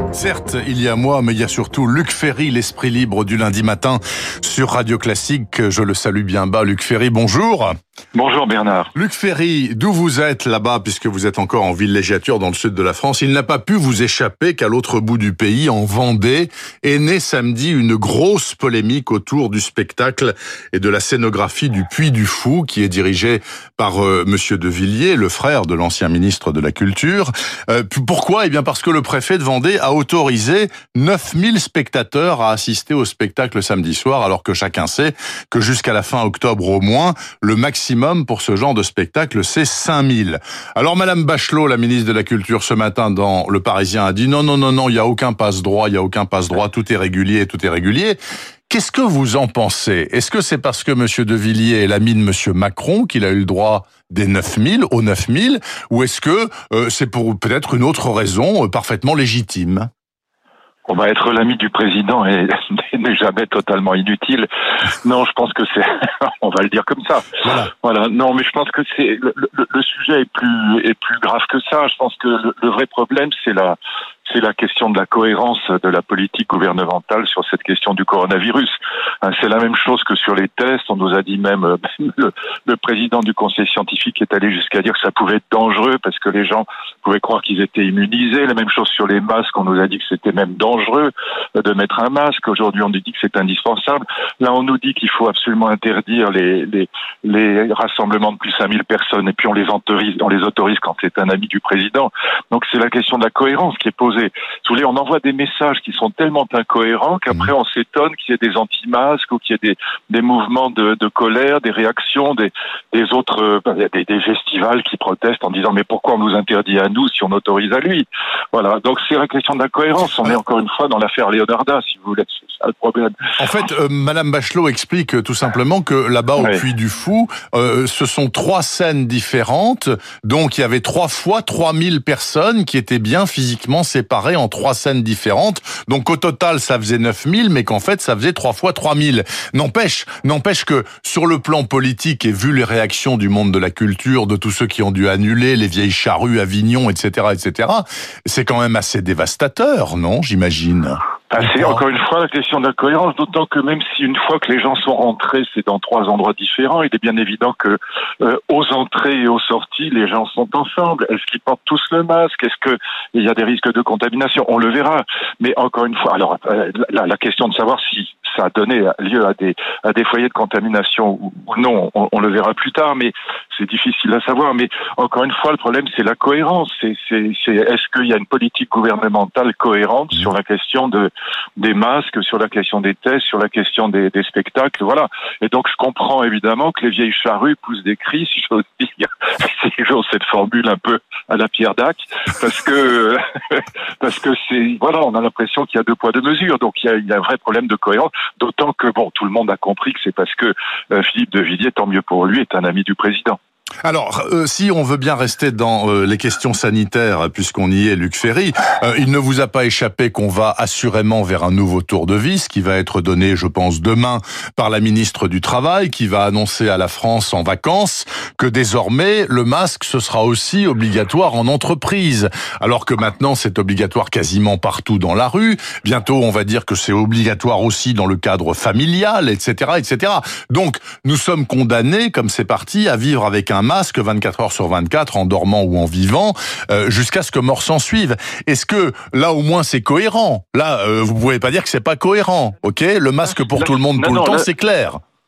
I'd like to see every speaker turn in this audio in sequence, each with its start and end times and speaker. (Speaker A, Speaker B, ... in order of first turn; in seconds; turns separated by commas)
Speaker A: 0.1-7.8, Speaker B: 8.1-8.9, Speaker A: 8.9-59.9, Speaker B: 60.9-78.7, Speaker A: 67.4-67.7, Speaker B: 79.2-123.2, Speaker A: 123.4-151.8, Speaker B: 126.4-126.6, Speaker B: 151.3-203.4, Speaker A: 203.8-245.0, Speaker B: 243.5-244.5